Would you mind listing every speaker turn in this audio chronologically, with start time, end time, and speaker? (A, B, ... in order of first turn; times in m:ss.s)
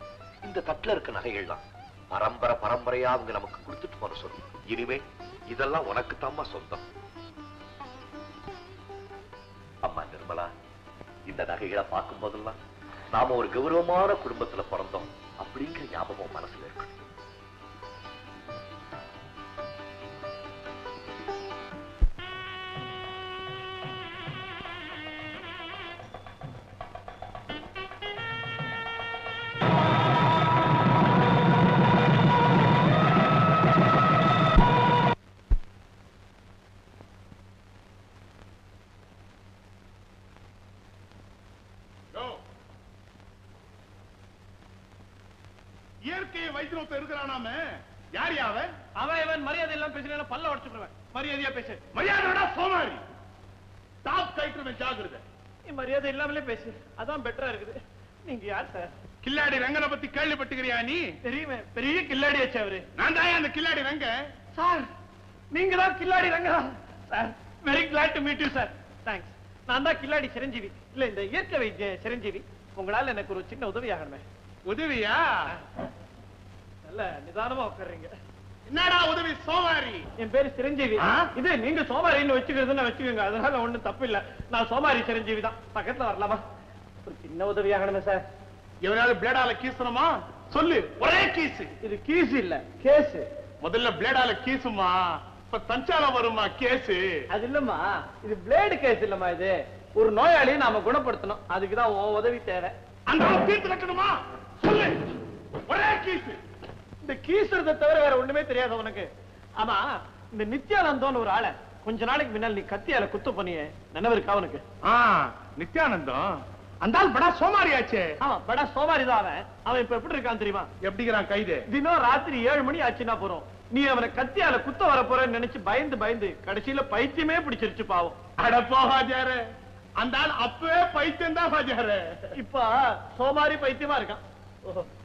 0:00.4-0:06.9 A
0:09.8-0:10.5 A
0:11.2-0:12.6 A
0:13.1-0:16.9 A
0:42.1-0:42.4 B
0:46.0-0:48.7 B
0:49.0-0:51.8 C
0:51.9-0:53.0 B
0:54.0-0:55.2 B
0:55.7-0:58.9 C
0:59.2-1:01.0 B
1:01.2-1:02.8 C
1:03.0-1:04.2 B
1:04.5-1:04.9 C
1:05.5-1:14.2 C
1:14.7-1:15.4 B
1:16.8-1:18.1 C
1:18.7-1:20.0 B
1:20.2-1:26.4 C
1:21.0-1:21.3 B
1:27.0-1:28.2 C
1:28.8-1:31.7 B
1:31.8-1:33.2 C
1:33.6-1:37.1 B
1:37.3-1:42.7 C
1:43.1-1:45.0 B
1:45.6-1:46.4 B
1:47.0-1:54.6 C
1:54.8-1:58.1 B
1:58.2-2:00.7 C
2:00.8-2:01.6 B
2:01.7-2:08.2 C
2:08.4-2:09.4 B
2:10.0-2:12.3 B
2:12.3-2:14.9 C